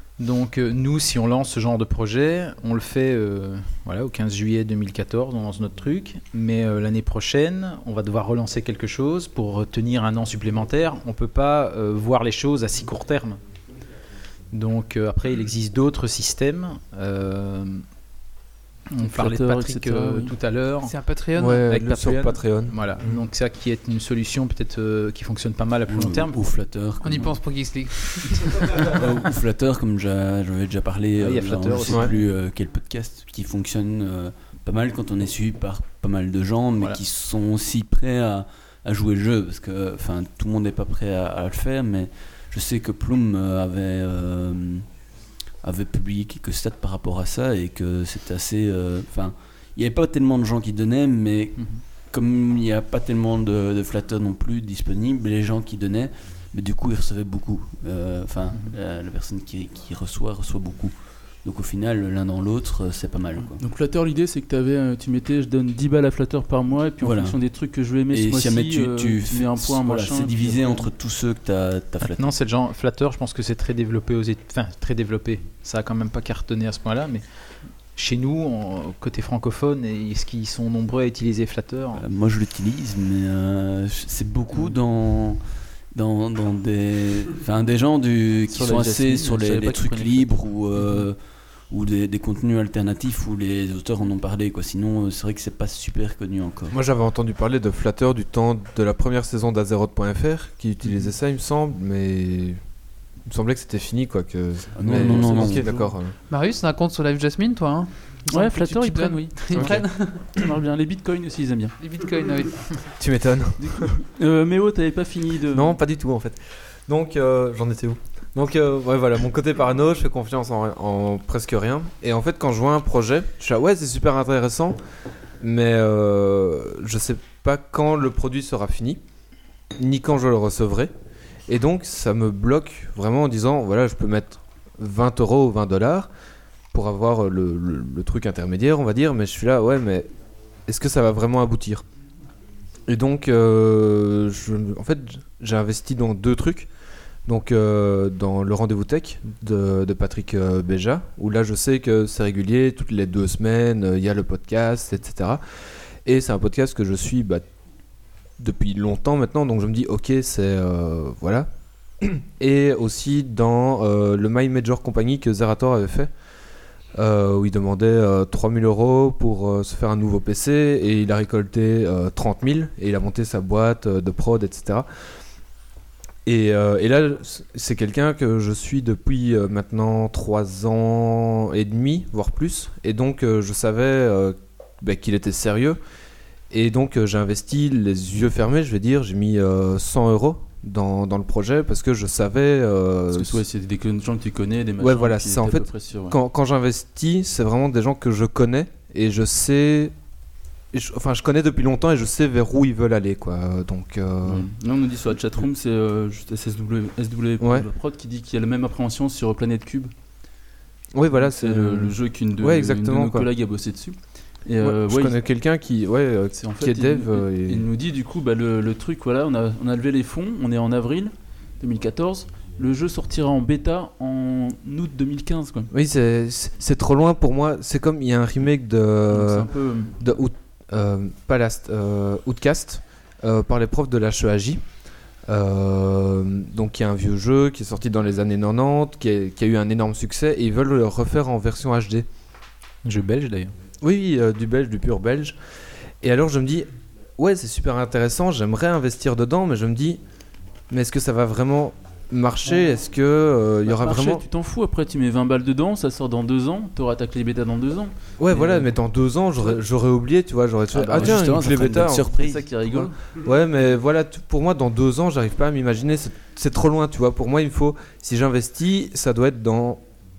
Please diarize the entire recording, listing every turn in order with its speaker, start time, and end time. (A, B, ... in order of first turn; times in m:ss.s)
0:00.2-0:13.4 A
0:14.5-0:17.8 A
0:18.9-0:20.9 A
0:19.0-0:20.3 B
0:20.8-0:21.7 C
0:21.4-0:23.1 D
0:21.6-0:26.4 A
0:25.9-0:27.3 E
0:27.0-0:28.8 C
0:28.8-0:44.8 E
0:31.2-0:32.2 A
0:45.6-1:03.6 E
1:03.6-1:10.9 B
1:07.0-1:07.4 E
1:08.1-1:12.3 E
1:12.0-1:17.2 A
1:17.9-1:22.0 A
1:21.9-1:25.4 E
1:25.9-1:31.2 E
1:28.5-1:31.0 B
1:31.7-1:36.7 E
1:36.7-1:42.6 D
1:43.2-1:46.1 D
1:44.8-1:45.9 B
1:44.8-1:45.7 E
1:46.3-1:50.2 C
1:48.3-1:51.7 B
1:49.5-1:49.8 D
1:51.8-1:52.7 C
1:53.0-1:53.9 D
1:53.6-1:55.8 B
1:55.5-2:04.8 D
2:05.4-2:09.0 D
2:09.8-2:10.9 D
2:11.5-2:16.1 D
2:16.7-2:20.1 D
2:20.6-2:21.8 D
2:22.9-2:26.7 D
2:27.2-2:35.4 D
2:36.0-2:37.4 D
2:38.4-2:41.5 D
2:42.0-2:46.1 D
2:46.9-2:54.9 D
2:56.2-3:05.8 D
3:06.5-3:13.4 D
3:13.1-3:16.2 B
3:14.8-3:19.9 D
3:20.7-3:24.5 D
3:24.2-3:29.9 B
3:27.4-3:27.7 D
3:30.9-3:33.3 D
3:31.1-3:35.2 B
3:34.6-3:37.7 D
3:36.4-3:45.7 B
3:45.7-3:54.6 D
3:49.1-3:50.0 B
3:55.3-4:02.1 D
4:02.8-4:03.5 A
4:03.8-4:05.4 D
4:06.0-4:10.0 D
4:10.7-4:14.2 D
4:13.6-4:18.7 B
4:18.2-4:22.1 D
4:20.8-4:21.3 B
4:20.8-4:22.4 E
4:22.1-4:22.9 B
4:22.7-4:29.8 D